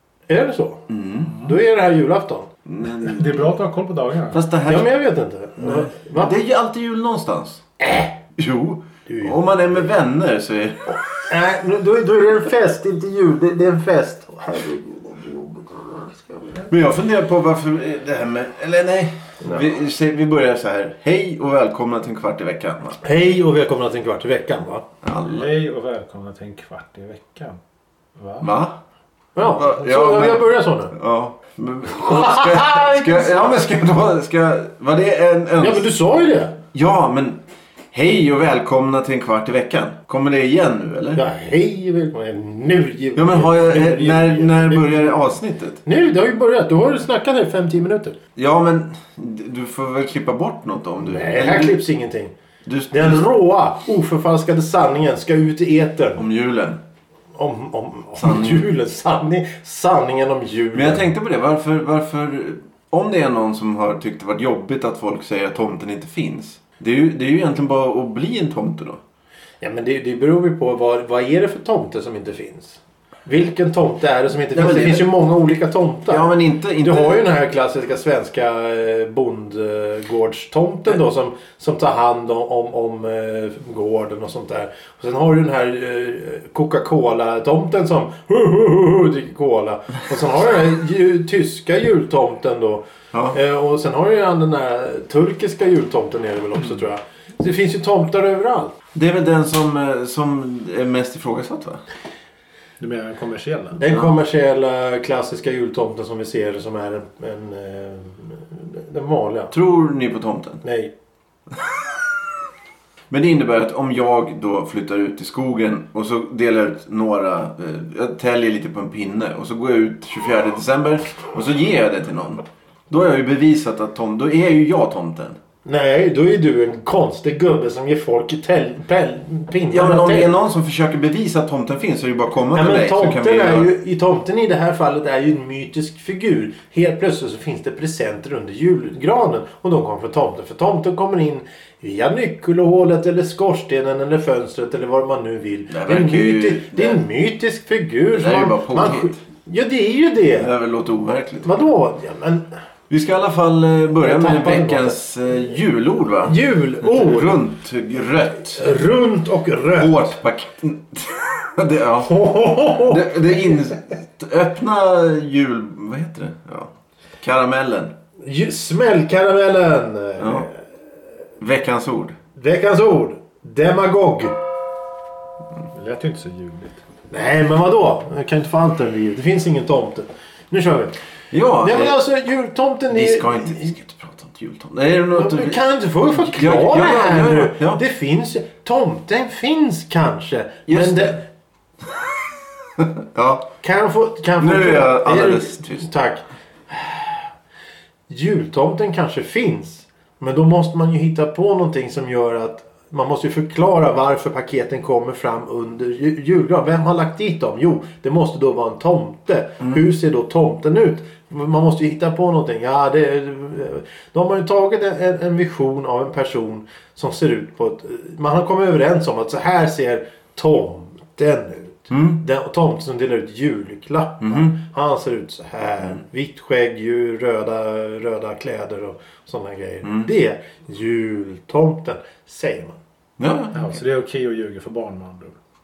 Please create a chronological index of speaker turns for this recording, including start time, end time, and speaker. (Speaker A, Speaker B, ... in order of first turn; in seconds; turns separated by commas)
Speaker A: 0.3-2.5, Speaker B: 0.9-1.4, Speaker B: 2.6-3.5, Speaker C: 3.0-4.4, Speaker B: 4.3-4.9, Speaker A: 4.7-6.3, Speaker B: 5.6-7.6, Speaker A: 7.8-8.1, Speaker B: 8.3-11.0, Speaker A: 9.1-9.5, Speaker A: 11.2-16.7, Speaker B: 16.7-23.0, Speaker A: 23.0-24.9, Speaker B: 25.0-25.5, Speaker C: 25.2-27.6, Speaker C: 28.2-28.5, Speaker B: 28.4-28.8, Speaker A: 29.4-30.9, Speaker B: 29.4-35.9, Speaker A: 31.9-33.3, Speaker A: 35.6-36.5, Speaker B: 36.6-37.4, Speaker B: 37.9-41.2, Speaker A: 41.1-45.3, Speaker B: 43.1-45.8, Speaker A: 45.8-48.2, Speaker B: 48.4-51.8, Speaker A: 51.0-52.3, Speaker B: 52.6-53.3, Speaker A: 52.9-56.2, Speaker B: 56.1-56.8, Speaker A: 57.3-61.0, Speaker B: 58.2-58.7, Speaker B: 60.7-69.0, Speaker A: 69.6-98.8, Speaker B: 74.5-75.1, Speaker B: 76.1-77.2, Speaker B: 93.1-93.4, Speaker B: 98.9-101.8, Speaker C: 102.8-103.8, Speaker A: 103.8-109.5, Speaker B: 109.5-110.6, Speaker A: 110.6-110.9, Speaker B: 113.1-125.4, Speaker A: 125.6-130.3, Speaker B: 129.7-133.7, Speaker A: 132.5-150.5, Speaker B: 145.7-147.0, Speaker B: 148.1-149.2, Speaker B: 150.3-151.5, Speaker A: 151.4-152.5, Speaker B: 152.9-158.8, Speaker A: 154.0-155.0, Speaker A: 156.2-157.4, Speaker A: 158.4-160.1, Speaker B: 159.7-167.9, Speaker A: 162.1-163.5, Speaker A: 168.2-170.6, Speaker B: 170.2-170.5, Speaker B: 171.4-172.2, Speaker A: 172.3-174.4, Speaker C: 175.7-176.8, Speaker A: 177.1-180.9, Speaker B: 181.3-182.0, Speaker A: 181.6-183.7, Speaker B: 182.9-187.8, Speaker A: 185.1-191.2, Speaker B: 190.7-191.2, Speaker B: 192.8-193.5, Speaker A: 193.6-197.2, Speaker B: 194.4-195.9, Speaker A: 198.1-232.8, Speaker B: 209.6-209.8, Speaker B: 221.9-222.2, Speaker B: 224.2-224.5, Speaker B: 229.8-230.1, Speaker B: 233.2-233.8, Speaker C: 233.5-235.3